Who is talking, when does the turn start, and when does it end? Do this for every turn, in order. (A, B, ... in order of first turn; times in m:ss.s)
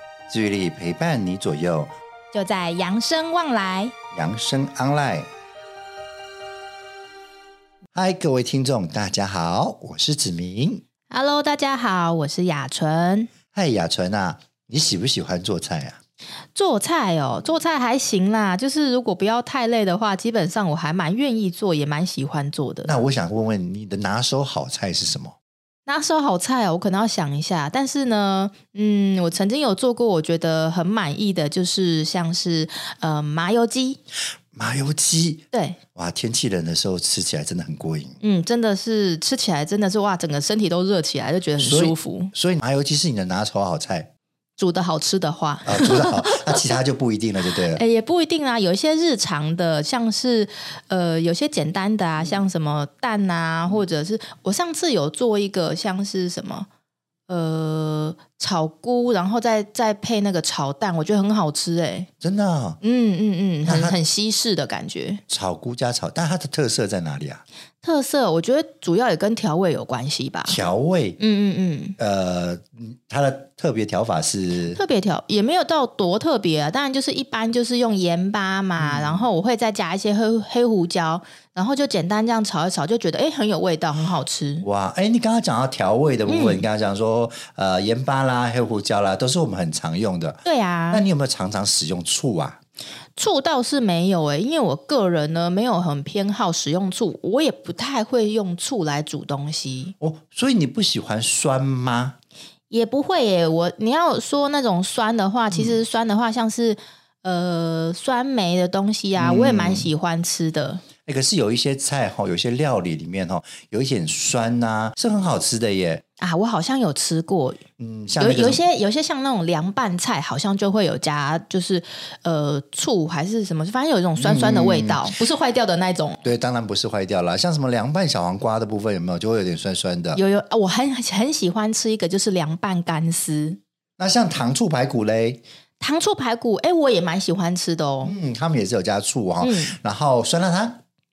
0:00.3-0:01.9 A
0:02.3-0:03.9 B
0:04.1-0:05.3 A
0:07.9-0:10.8 A
0:11.1-0:13.3 B
0:13.5-0:16.0 A
0:16.5-0:22.9 B
0:22.8-0:25.4 A
0:25.9-0:34.0 B
0:34.5-0:38.2 A
0:35.5-0:35.8 B
0:38.2-0:42.3 B
0:41.6-0:44.1 A
0:44.6-0:46.6 B
0:45.6-0:47.8 A
0:47.7-0:56.7 B
0:57.3-1:02.1 B
1:02.2-1:02.8 A
1:02.8-1:05.2 B
1:03.6-1:04.0 A
1:05.3-1:07.4 A
1:07.8-1:10.6 B
1:10.5-1:11.2 A
1:11.2-1:12.0 B
1:12.0-1:14.8 A
1:14.7-1:24.6 B
1:18.8-1:19.3 A
1:24.6-1:32.6 A
1:26.3-1:26.7 B
1:30.4-1:31.0 B
1:33.2-1:39.9 B
1:40.0-1:42.2 A
1:42.7-1:50.8 B
1:45.5-1:45.8 A
1:49.2-1:49.9 A
1:51.0-1:56.0 A
1:56.2-1:57.6 B
1:57.8-1:58.6 A
1:58.2-2:06.2 B
2:04.2-2:05.0 A
2:06.2-2:10.2 A
2:10.2-2:13.6 B
2:14.0-2:15.4 A
2:15.8-2:18.1 B
2:18.0-2:20.8 A
2:19.4-2:19.8 B